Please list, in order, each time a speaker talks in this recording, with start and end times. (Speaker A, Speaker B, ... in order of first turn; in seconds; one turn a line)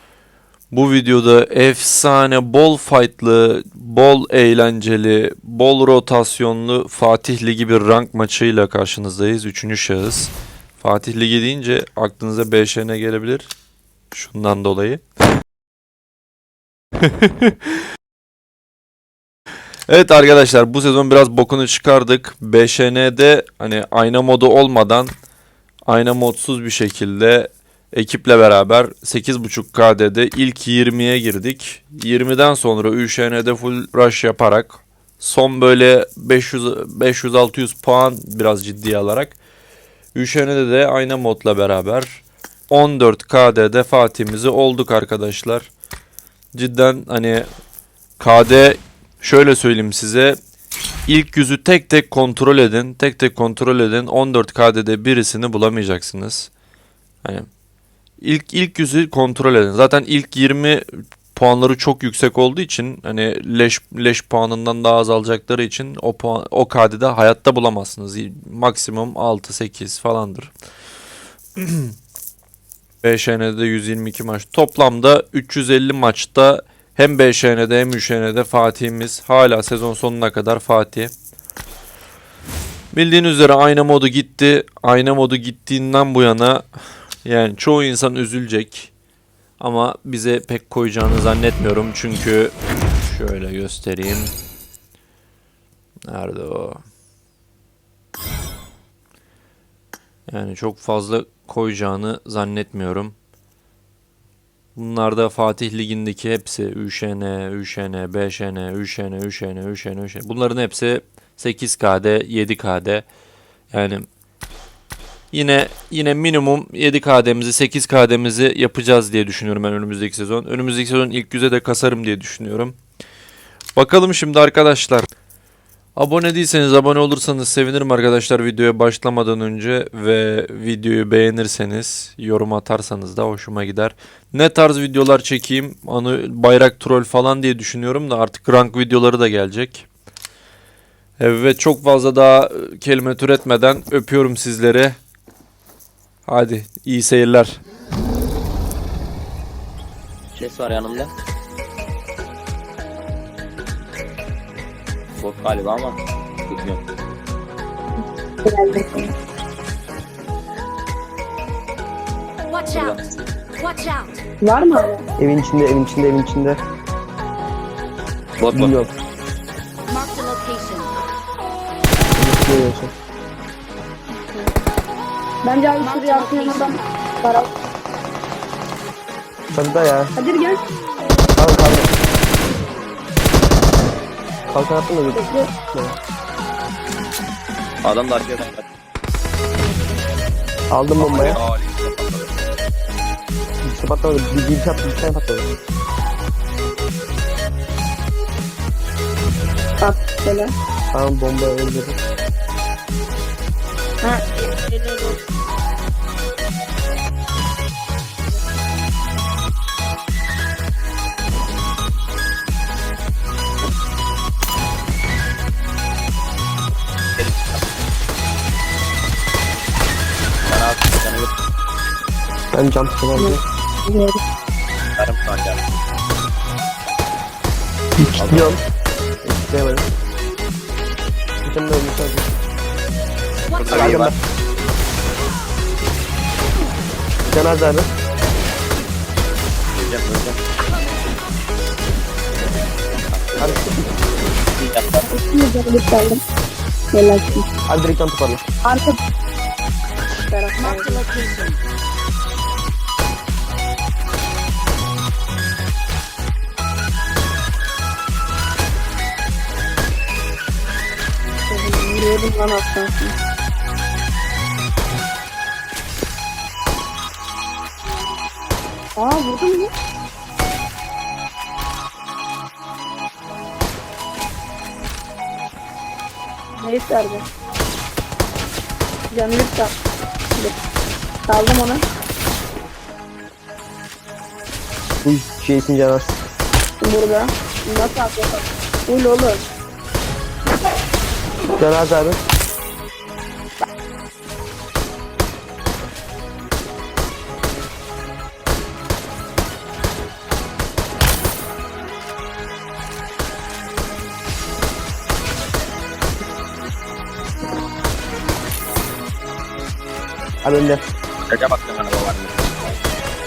Speaker A: 0.7-13.5
Speaker A: 14.1-15.0
Speaker A: 17.1-17.5
Speaker A: 19.9-25.1
Speaker A: 25.9-39.4
Speaker A: 40.1-45.7
Speaker A: 46.5-47.5
Speaker A: 48.2-50.4
Speaker A: 51.1-56.5
Speaker A: 58.2-70.5
Speaker A: 71.6-71.9
Speaker A: 73.0-81.1
Speaker A: 82.9-86.7
Speaker A: 87.2-88.9
Speaker A: 89.6-94.3
Speaker A: 96.1-96.8
Speaker A: 100.3-103.2
Speaker A: 104.8-113.1
Speaker A: 113.7-114.1
Speaker A: 115.3-122.8
Speaker A: 123.8-125.1
Speaker A: 126.0-139.9
Speaker A: 141.2-145.0
Speaker A: 146.3-147.6
Speaker B: 150.4-151.1
Speaker B: 155.2-156.0
Speaker B: 156.5-156.8
Speaker C: 158.4-159.1
Speaker D: 162.5-163.0
Speaker B: 162.7-163.0
Speaker D: 163.6-164.2
Speaker C: 164.4-165.1
Speaker E: 165.2-166.6
Speaker B: 168.4-168.8
Speaker E: 168.5-168.9
Speaker D: 169.9-170.9
Speaker E: 172.2-172.9
Speaker C: 175.4-177.5
Speaker D: 175.8-176.8
Speaker E: 179.5-180.1
Speaker C: 180.2-180.6
Speaker E: 181.4-181.9
Speaker E: 184.5-186.0
Speaker C: 185.1-185.5
Speaker B: 187.8-188.7
Speaker E: 190.7-191.4
Speaker B: 191.0-192.3
Speaker E: 193.6-195.5
Speaker C: 199.8-200.5
Speaker E: 200.9-202.0
Speaker C: 204.0-205.2
Speaker B: 217.2-217.6
Speaker B: 220.4-221.3
Speaker E: 222.5-223.4
Speaker C: 223.2-224.2
Speaker B: 225.0-225.6
Speaker E: 228.0-228.6
Speaker B: 228.2-228.5
Speaker E: 229.2-229.9
Speaker E: 231.4-232.3
Speaker D: 233.5-233.8
Speaker B: 233.6-234.1
Speaker E: 233.7-234.2
Speaker E: 237.3-237.9
Speaker B: 239.8-240.4
Speaker B: 243.1-243.5
Speaker E: 243.4-243.9
Speaker B: 244.6-245.1
Speaker C: 245.1-246.2
Speaker C: 246.9-247.5
Speaker E: 247.7-248.4
Speaker C: 248.7-249.0
Speaker C: 250.1-251.0
Speaker D: 250.6-251.6
Speaker C: 261.5-263.1
Speaker C: 269.0-269.7
Speaker C: 276.6-277.2
Speaker C: 279.1-279.7
Speaker C: 281.3-281.8
Speaker E: 285.0-286.2
Speaker C: 286.8-289.4
Speaker E: 291.6-292.2
Speaker E: 310.4-310.9
Speaker B: 311.3-312.8